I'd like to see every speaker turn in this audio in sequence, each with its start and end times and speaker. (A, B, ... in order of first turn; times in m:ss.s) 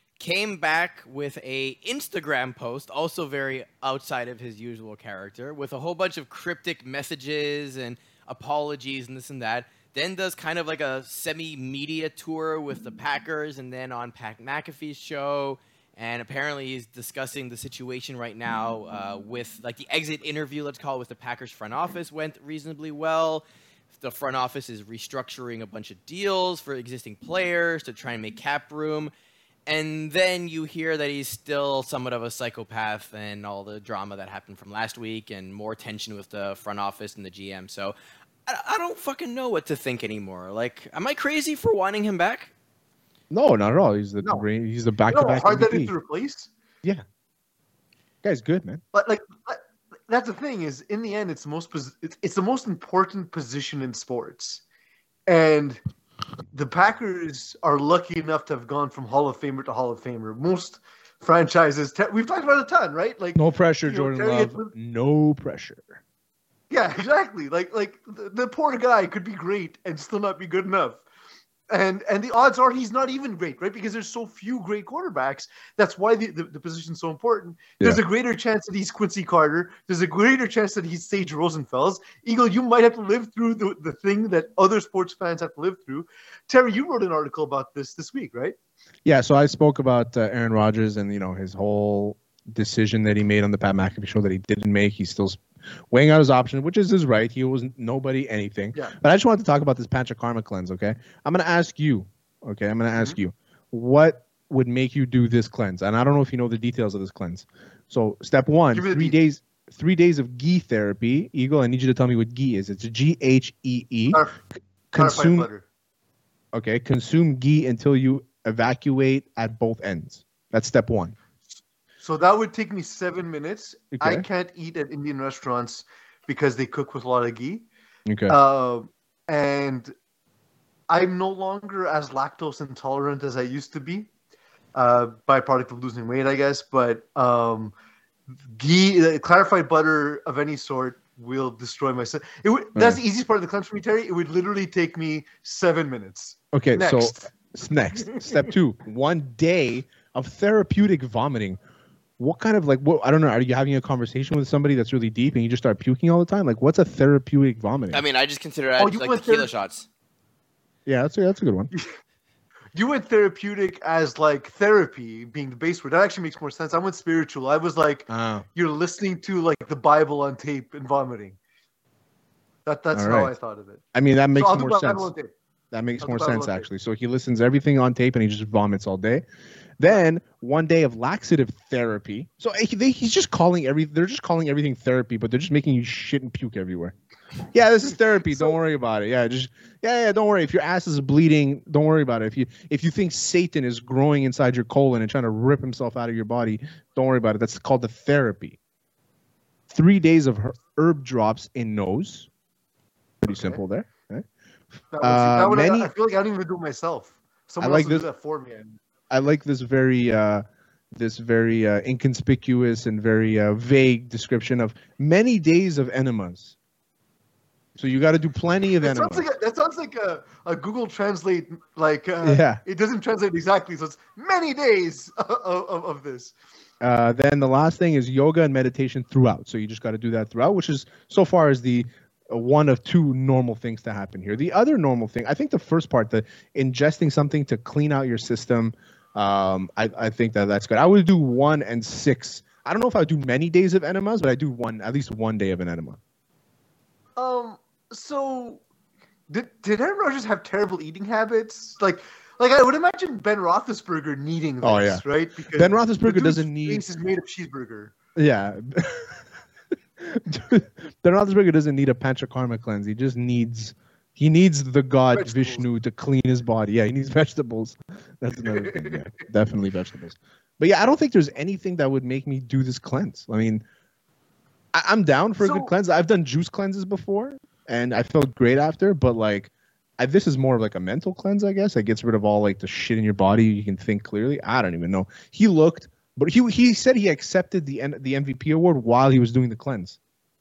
0:00.2-0:23.4 A
0:24.0-0:29.1 A
0:29.7-0:38.0 A
0:38.5-0:42.5 A
0:43.3-0:45.9 B
0:45.1-0:46.5 C
0:48.2-0:48.8 B
0:48.9-0:54.6 C
0:55.3-0:55.8 C
0:56.5-1:04.7 C
1:03.4-1:06.0 B
1:06.7-1:11.0 C
1:11.7-1:28.6 C
1:29.0-1:54.2 B
1:48.7-1:49.2 C
1:54.1-1:54.4 C
1:54.9-1:55.5 B
1:55.0-1:55.6 C
1:56.5-2:01.2 B
2:02.0-2:07.7 C
2:03.9-2:04.2 B
2:08.1-2:08.4 B
2:08.3-2:09.9 C
2:10.9-2:14.1 C
2:14.8-2:17.7 C
2:18.5-2:27.3 C
2:22.8-2:23.0 B
2:26.5-2:31.6 B
2:27.9-2:28.5 C
2:32.2-2:38.0 B
2:37.9-2:39.9 A
2:38.8-2:39.5 C
2:40.9-2:41.7 B
2:42.7-2:51.4 C
2:48.1-2:48.4 B
2:52.7-2:53.8 C
2:52.9-2:53.3 B
2:53.9-2:55.1 B
2:54.4-2:55.3 C
2:55.7-2:59.2 B
2:56.0-2:56.7 C
2:59.8-3:07.0 B
3:07.5-3:18.6 B
3:19.7-3:22.3 B
3:23.2-3:25.9 B
3:23.3-3:23.6 C
3:24.9-3:28.8 C
3:27.6-3:28.1 B
3:29.1-3:36.6 B
3:37.8-3:39.2 B
3:38.8-3:46.3 C
3:42.2-3:42.6 B
3:46.8-4:06.0 B
4:07.2-4:08.6 C
4:09.3-4:17.9 C
4:14.6-4:16.9 B
4:18.2-4:19.3 B
4:20.0-4:33.6 B
4:25.1-4:25.7 C
4:28.4-4:29.0 C
4:34.7-4:50.0 B
4:35.4-4:35.7 C